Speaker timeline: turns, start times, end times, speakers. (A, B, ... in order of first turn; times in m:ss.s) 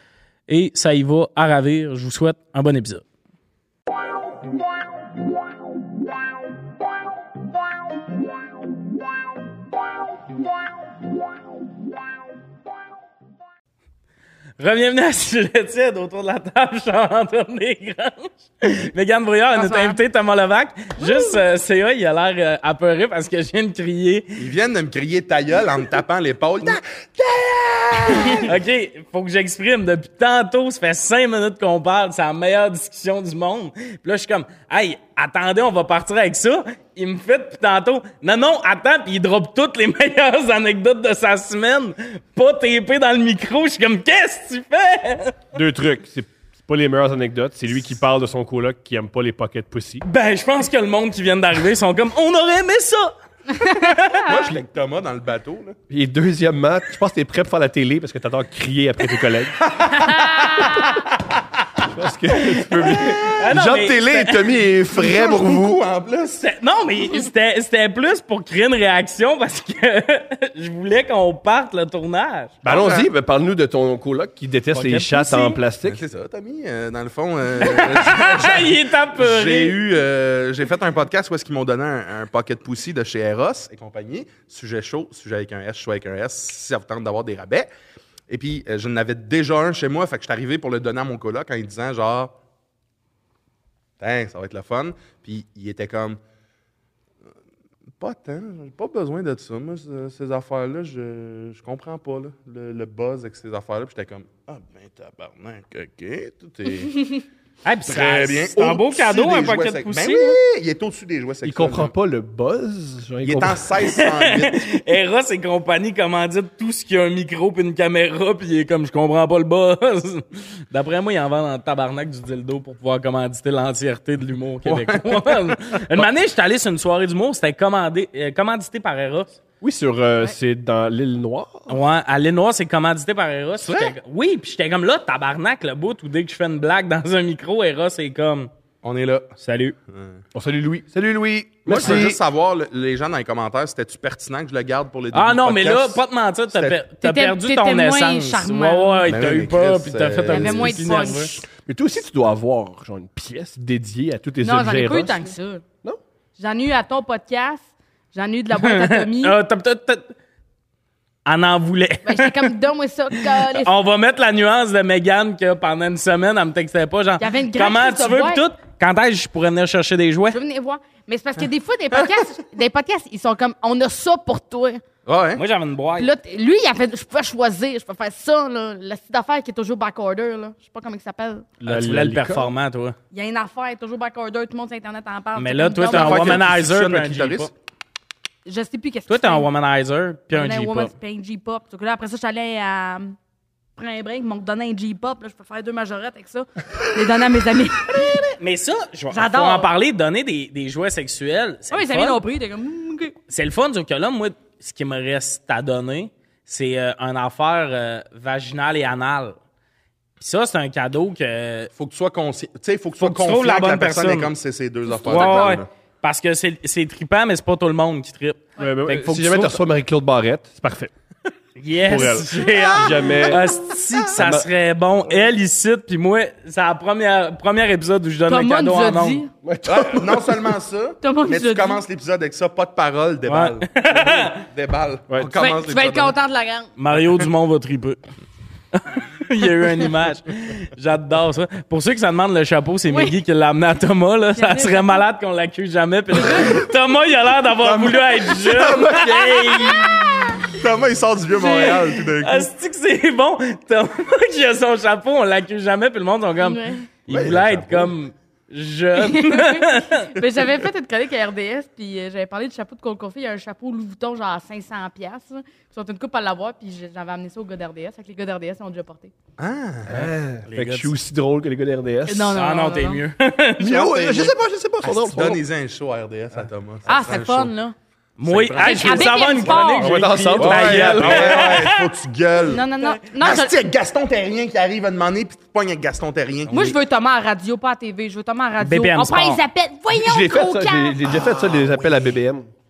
0:00.5-0:03.0 A
0:14.6-0:24.4 A
0:19.5-0:20.0 B
0:21.0-0:21.4 B
0:24.4-0:28.5 C
0:28.3-0:45.4 A
0:45.5-0:50.0 D
0:50.0-0:54.3 A
0:54.2-0:55.8 C
0:55.9-0:59.6 D
0:59.6-1:01.3 C
1:00.3-1:00.8 B
1:01.9-1:05.8 D
1:02.6-1:04.5 A
1:04.9-1:06.4 C
1:06.4-1:12.6 A
1:12.6-1:13.1 C
1:12.6-1:16.0 D
1:14.7-1:15.6 A
1:15.8-1:27.7 C
1:17.6-1:19.8 A
1:28.3-1:32.3 C
1:34.0-1:36.2 C
1:38.0-1:47.2 C
1:47.6-1:50.4 A
1:47.9-1:51.9 C
1:51.4-1:53.7 D
1:53.2-1:54.6 C
1:53.8-2:09.4 A
2:04.6-2:06.1 C
2:09.6-2:11.8 D
2:11.7-2:18.5 A
2:13.6-2:13.9 C
2:18.8-2:19.3 C
2:19.4-2:19.8 A
2:20.3-2:22.2 D
2:21.6-2:26.8 C
2:21.8-2:22.0 A
2:25.1-2:31.3 A
2:27.0-2:29.2 B
2:29.0-2:31.1 C
2:30.3-2:31.4 B
2:31.6-2:35.3 D
2:34.4-2:35.6 B
2:36.4-2:39.4 B
2:38.5-2:40.1 A
2:41.2-2:42.5 A
2:42.0-2:43.7 B
2:43.2-2:50.4 A
2:47.2-2:48.4 B
2:50.3-2:54.8 B
2:55.0-2:55.4 C
2:55.4-2:56.1 A
2:56.0-3:01.5 B
3:01.6-3:02.5 D
3:01.6-3:03.0 A
3:03.1-3:06.4 B
3:05.4-3:07.5 A
3:05.8-3:07.5 C
3:08.4-3:09.5 B
3:09.1-3:10.9 A
3:10.3-3:13.2 B
3:13.8-3:18.3 B
3:18.2-3:22.2 A
3:19.1-3:19.7 B
3:21.7-3:23.2 B
3:23.3-3:29.4 A
3:30.2-3:31.7 A
3:31.8-3:35.7 C
3:33.0-3:34.3 A
3:34.9-3:35.6 B
3:35.0-3:39.6 A
3:38.6-3:40.9 D
3:41.6-3:49.2 A
3:41.8-3:43.4 D
3:44.2-3:44.4 D
3:48.3-3:49.3 B
3:49.4-3:50.5 D
3:49.6-3:56.1 C
3:51.0-3:51.8 B
3:53.2-3:54.4 A
3:55.4-3:56.7 B
3:56.8-3:58.0 A
3:58.7-4:10.3 A
4:02.9-4:03.1 B
4:04.3-4:05.0 B
4:06.1-4:06.6 B
4:07.6-4:09.6 C
4:08.5-4:09.5 D
4:09.7-4:10.6 B
4:10.4-4:12.5 C
4:11.4-4:11.6 A
4:11.5-4:11.9 B
4:12.2-4:20.2 A
4:16.4-4:16.8 B
4:17.1-4:17.9 C
4:19.0-4:29.1 B
4:29.4-4:30.0 C
4:29.9-4:32.4 D
4:30.4-4:30.9 A
4:32.1-4:33.0 B
4:32.3-4:33.9 A
4:33.6-4:35.4 D
4:33.7-4:37.5 C
4:36.8-4:37.7 B
4:38.2-4:41.9 A
4:38.2-4:39.6 C
4:38.6-4:40.0 B
4:39.8-4:41.7 D
4:40.4-4:42.6 C
4:42.4-4:43.6 B
4:43.2-4:46.8 C
4:46.5-4:51.0 B
4:48.6-4:49.4 A
4:49.9-4:52.5 D
4:51.3-4:51.8 C